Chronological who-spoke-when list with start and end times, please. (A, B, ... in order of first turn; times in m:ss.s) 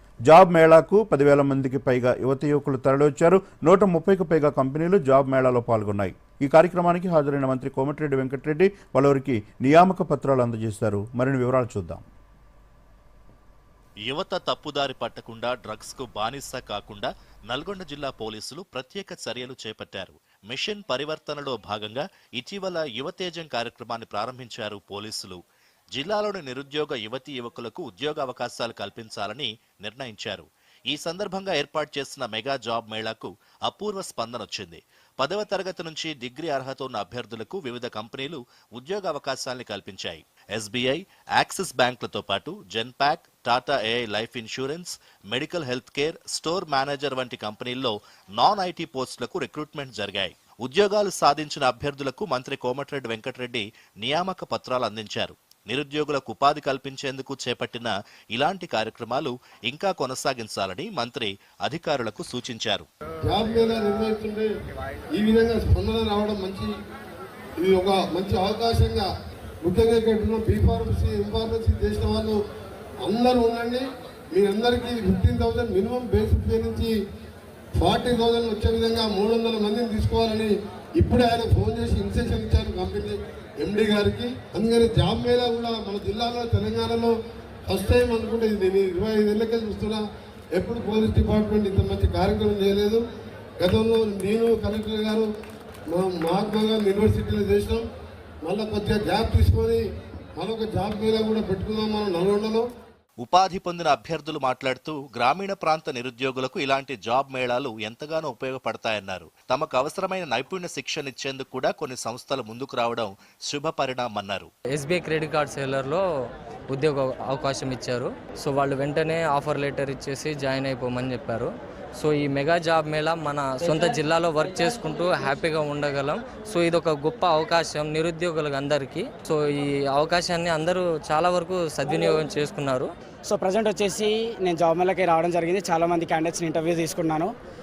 0:00.3-0:12.0 A
0:14.0-0:25.4 B
0:25.9-1:02.9 B
1:03.3-1:04.5 C
1:05.1-1:06.7 C
1:07.6-1:09.1 C
1:09.6-1:12.4 C
1:13.0-1:16.9 C
1:17.8-1:27.1 C
1:27.7-1:30.0 C
1:30.5-1:33.0 C
1:33.6-1:35.3 C
1:35.9-1:37.8 C
1:38.4-1:39.8 C
1:40.4-1:42.7 C
1:43.2-1:54.5 B
1:54.7-2:12.9 D
2:11.9-2:12.2 E
2:13.3-2:17.3 E